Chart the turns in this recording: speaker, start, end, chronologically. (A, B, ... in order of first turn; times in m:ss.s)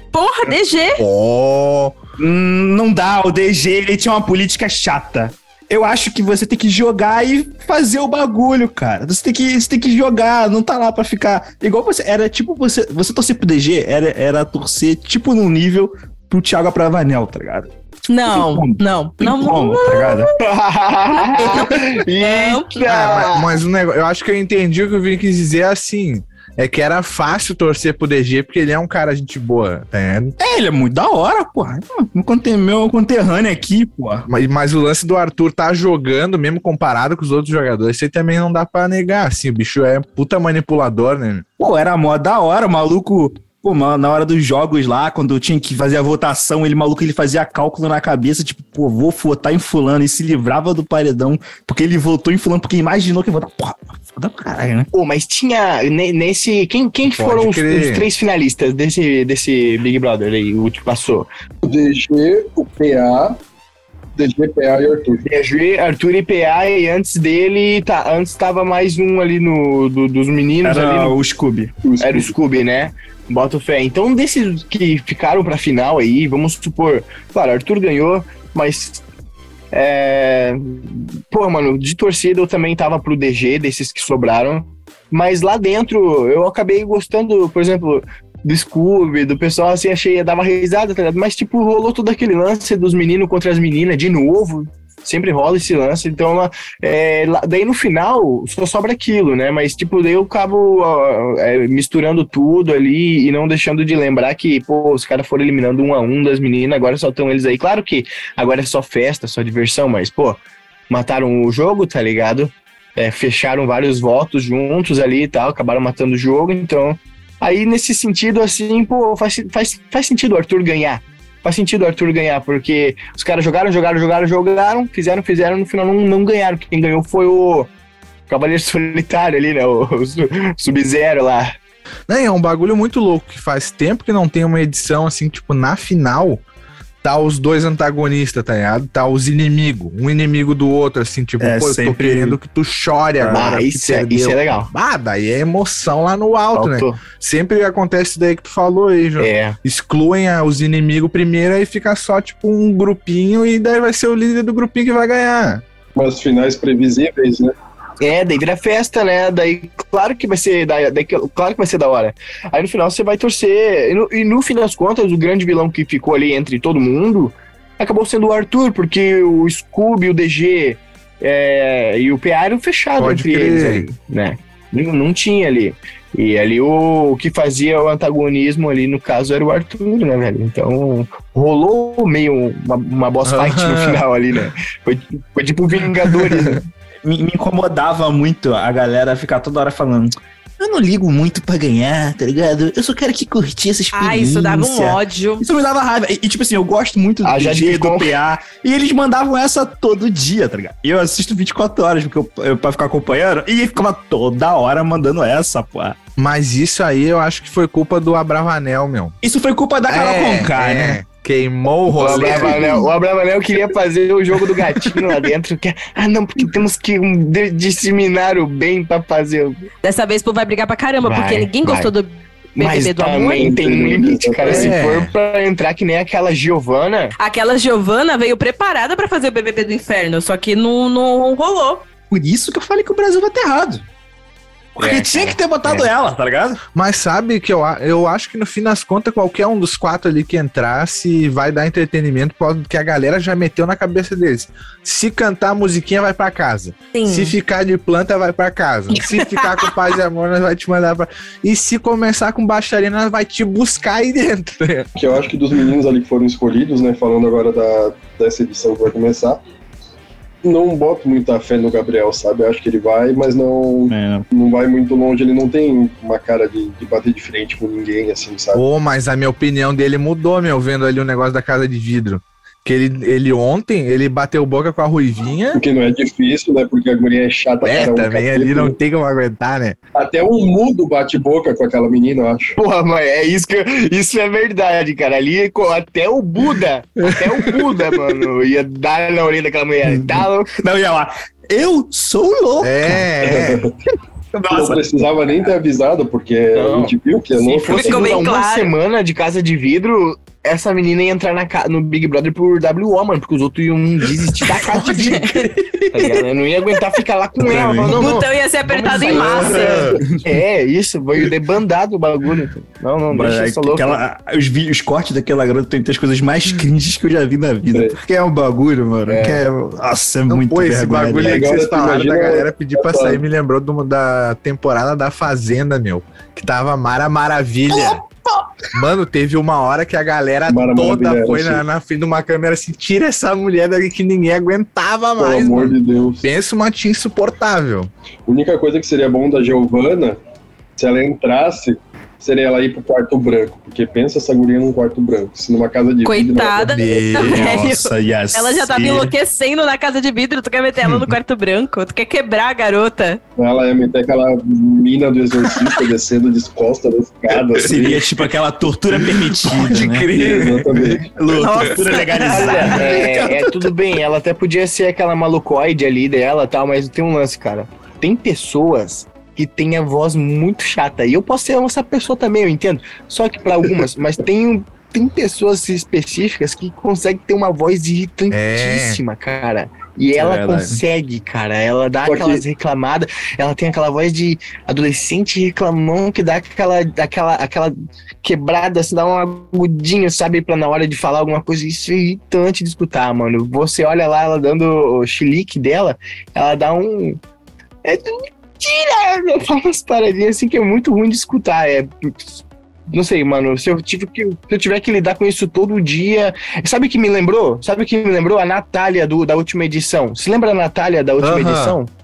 0:00.1-0:01.0 A
0:01.0-0:02.0 B
0:02.2-0:17.7 C
0:18.1-0:20.2 A
0:18.3-0:20.3 C
0:20.4-0:23.6 D
0:21.4-0:22.8 A
0:22.9-0:30.4 B
0:30.4-0:34.3 C
0:34.3-0:41.4 B
0:41.6-0:54.9 C
0:54.9-1:01.3 D
0:57.0-0:58.1 B
1:01.6-1:03.4 E
1:04.2-1:05.2 E
1:05.2-1:11.2 D
1:10.6-1:11.7 C
1:11.8-1:12.3 E
1:12.0-1:19.0 D
1:19.7-2:07.7 D
2:08.3-2:11.6 D
2:12.1-2:16.4 B
2:17.0-2:35.6 B
2:21.4-2:22.4 C
2:23.2-2:24.7 D
2:26.6-2:27.0 D
2:29.2-2:29.6 D
2:36.0-2:37.6 E
2:38.0-3:06.7 D
2:53.0-2:53.9 B
3:03.2-3:04.0 B
3:07.0-3:26.0 C
3:13.9-3:15.4 A
3:17.2-3:18.1 D
3:26.2-3:29.2 B
3:29.2-3:31.0 C
3:29.9-3:32.9 B
3:32.0-3:39.6 D
3:32.1-3:32.8 E
3:39.8-3:43.5 A
3:41.0-3:41.9 D
3:42.6-3:47.2 D
3:43.3-3:44.7 E
3:44.5-3:45.1 B
3:47.2-3:51.8 A
3:52.1-3:53.8 C
3:54.8-3:56.6 C
3:54.8-3:55.9 D
3:56.8-4:14.9 B
4:06.9-4:07.4 A
4:08.9-4:09.7 A
4:15.0-4:19.4 E
4:20.4-4:28.6 E
4:23.9-4:24.3 C
4:28.5-4:35.6 B
4:35.6-4:38.8 E
4:37.6-4:39.8 B
4:40.0-4:42.6 E
4:42.6-4:50.5 D
4:47.1-4:47.8 B
4:49.8-4:53.1 C
4:52.6-4:53.6 B
4:53.2-4:53.7 E
4:54.3-4:54.9 C
4:54.5-4:58.3 E
4:56.6-5:14.0 D
4:57.7-4:58.7 A
5:04.6-5:05.5 A
5:05.8-5:06.2 C
5:07.4-5:08.2 C
5:07.9-5:09.9 A
5:08.9-5:10.2 C
5:13.1-5:21.5 C
5:19.1-5:19.4 D
5:20.3-5:28.0 B
5:21.2-5:23.2 E
5:28.7-5:37.9 B
5:30.5-5:31.6 E
5:35.2-5:36.2 E
5:38.3-5:40.2 E
5:40.8-5:47.0 E
5:46.0-5:53.2 A
5:46.7-5:47.8 B
5:47.2-5:49.1 C
5:53.4-5:58.1 E
5:57.6-6:03.7 C
5:59.2-6:01.8 B
6:00.2-6:01.1 E
6:01.4-6:02.9 A
6:02.1-6:37.2 D
6:18.3-6:19.0 B
6:20.1-6:20.8 C
6:22.0-6:22.4 E
6:37.8-6:51.9 D
6:51.2-6:51.8 B